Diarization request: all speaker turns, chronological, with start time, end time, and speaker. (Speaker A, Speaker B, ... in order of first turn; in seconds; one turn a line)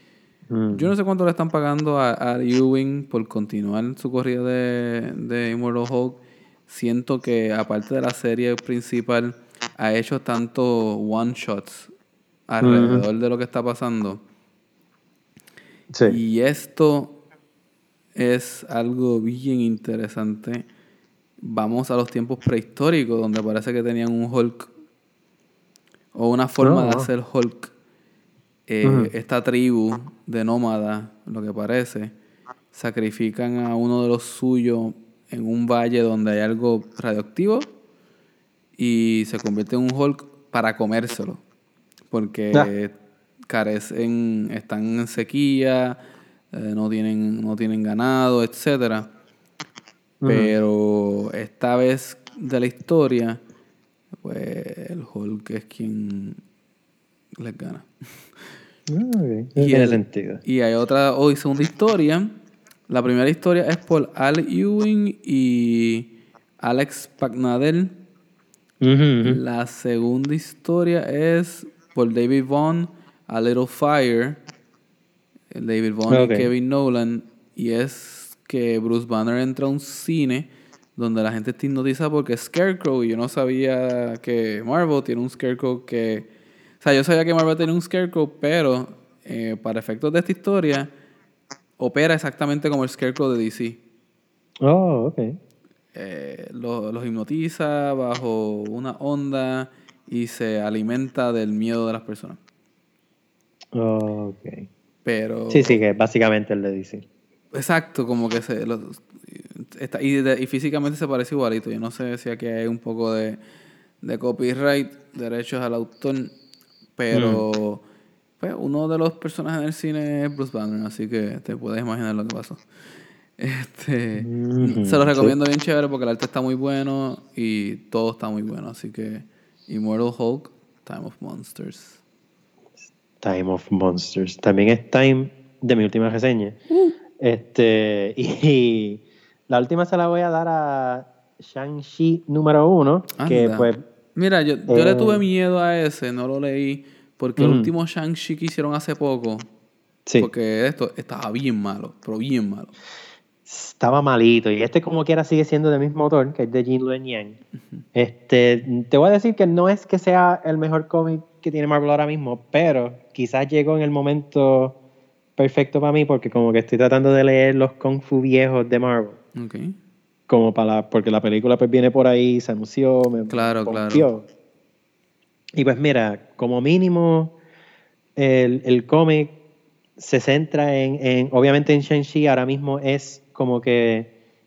Speaker A: 0.5-0.9
Speaker B: 0.7-11.9
Speaker B: 12.5-14.2
Speaker A: 12.6-13.1
Speaker A: 15.9-16.2
Speaker B: 16.1-17.2
Speaker B: 18.2-20.6
Speaker B: 21.4-24.7
Speaker B: 26.1-27.7
Speaker A: 26.6-27.1
Speaker B: 28.7-32.1
Speaker A: 28.8-29.1
Speaker B: 32.7-37.7
Speaker B: 38.8-41.4
Speaker B: 42.1-42.9
Speaker B: 43.5-46.0
Speaker B: 46.5-49.1
Speaker A: 50.2-50.5
Speaker B: 50.3-53.4
Speaker B: 54.2-56.4
Speaker B: 57.4-57.9
Speaker A: 58.9-60.4
Speaker B: 59.6-62.3
Speaker B: 62.9-66.1
Speaker B: 66.6-68.0
Speaker A: 68.8-69.4
Speaker B: 69.2-74.4
Speaker B: 75.5-86.3
Speaker A: 76.1-76.5
Speaker B: 86.8-90.9
Speaker B: 91.8-93.8
Speaker A: 94.6-95.4
Speaker B: 95.9-102.4
Speaker A: 103.8-104.7
Speaker B: 105.0-105.8
Speaker A: 105.5-107.0
Speaker B: 107.5-113.4
Speaker B: 114.0-116.3
Speaker B: 117.0-117.8
Speaker A: 117.1-117.4
Speaker B: 118.4-122.6
Speaker B: 123.4-132.0
Speaker A: 124.2-125.3
Speaker A: 133.2-136.6
Speaker A: 137.2-143.8
Speaker B: 143.2-149.5
Speaker A: 144.7-145.2
Speaker A: 147.4-147.7
Speaker B: 150.2-152.7
Speaker A: 153.5-157.4
Speaker A: 157.9-164.8
Speaker A: 165.4-169.2
Speaker B: 169.4-169.8
Speaker A: 170.3-174.3
Speaker B: 173.3-174.1
Speaker A: 175.6-177.3
Speaker A: 178.2-179.3
Speaker A: 180.0-184.1